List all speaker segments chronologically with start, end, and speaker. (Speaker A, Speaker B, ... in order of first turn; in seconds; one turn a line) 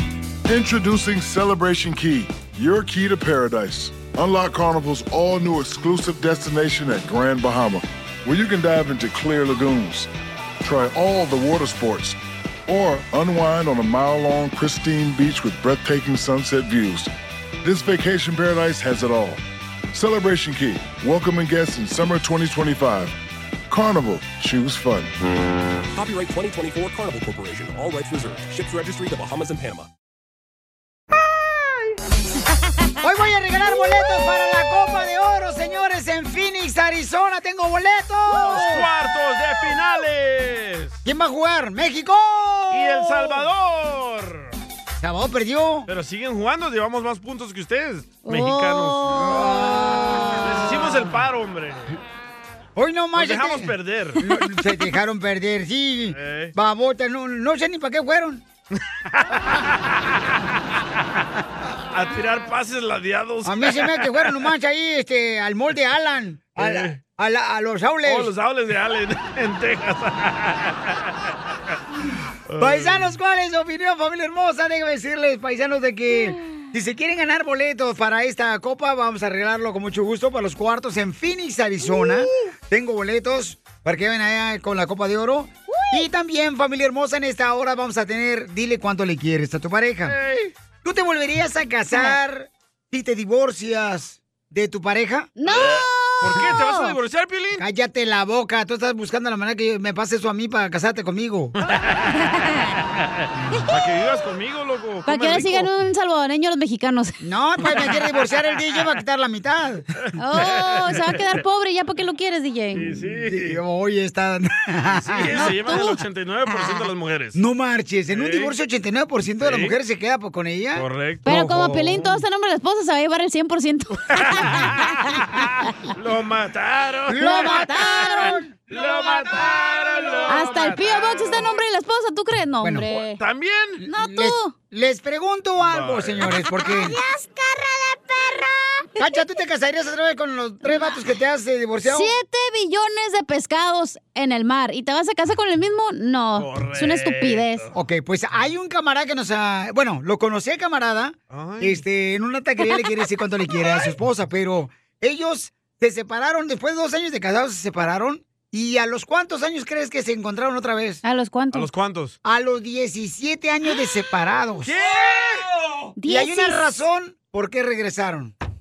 Speaker A: 0.5-10.1
Speaker A: 10.6-17.1
Speaker A: 17.6-19.4
Speaker A: 19.9-23.1
Speaker A: 23.7-25.1
Speaker B: 25.9-29.9
Speaker C: 33.0-38.8
Speaker D: 38.4-41.0
Speaker C: 41.0-43.5
Speaker D: 42.7-44.5
Speaker C: 45.0-45.9
Speaker D: 45.9-49.2
Speaker E: 48.2-50.5
Speaker C: 49.1-50.9
Speaker D: 50.4-52.0
Speaker C: 52.8-58.4
Speaker D: 53.1-54.2
Speaker D: 56.1-56.5
Speaker D: 59.1-60.4
Speaker D: 61.9-64.5
Speaker C: 63.4-68.3
Speaker D: 66.6-67.0
Speaker D: 68.0-71.0
Speaker D: 72.5-73.2
Speaker C: 72.6-90.2
Speaker D: 82.0-82.5
Speaker E: 85.7-86.0
Speaker D: 90.0-90.5
Speaker C: 90.8-95.3
Speaker E: 95.4-97.0
Speaker D: 95.5-97.6
Speaker C: 97.6-101.5
Speaker D: 101.7-102.1
Speaker E: 102.2-102.7
Speaker D: 103.2-105.7
Speaker E: 105.0-107.2
Speaker C: 107.2-109.8
Speaker D: 110.0-111.3
Speaker E: 110.2-112.9
Speaker D: 112.7-113.6
Speaker C: 113.2-115.6
Speaker D: 115.0-117.4
Speaker E: 115.4-116.0
Speaker C: 117.3-122.2
Speaker D: 118.1-118.5
Speaker D: 119.4-119.7
Speaker D: 120.8-121.4
Speaker E: 121.2-125.2
Speaker D: 124.1-131.6
Speaker C: 127.1-130.2
Speaker E: 127.1-128.4
Speaker E: 130.3-133.2
Speaker C: 132.6-132.8
Speaker D: 132.9-133.8
Speaker C: 133.8-137.0
Speaker E: 133.9-134.5
Speaker D: 135.6-136.4
Speaker E: 136.7-138.8
Speaker C: 139.0-142.1
Speaker E: 140.7-140.9
Speaker E: 141.8-147.7
Speaker D: 146.3-147.7
Speaker C: 147.7-161.0
Speaker D: 151.3-151.8
Speaker E: 161.0-161.7
Speaker D: 161.5-162.2
Speaker C: 162.2-164.7
Speaker D: 164.6-165.4
Speaker E: 166.0-166.7
Speaker C: 166.1-168.3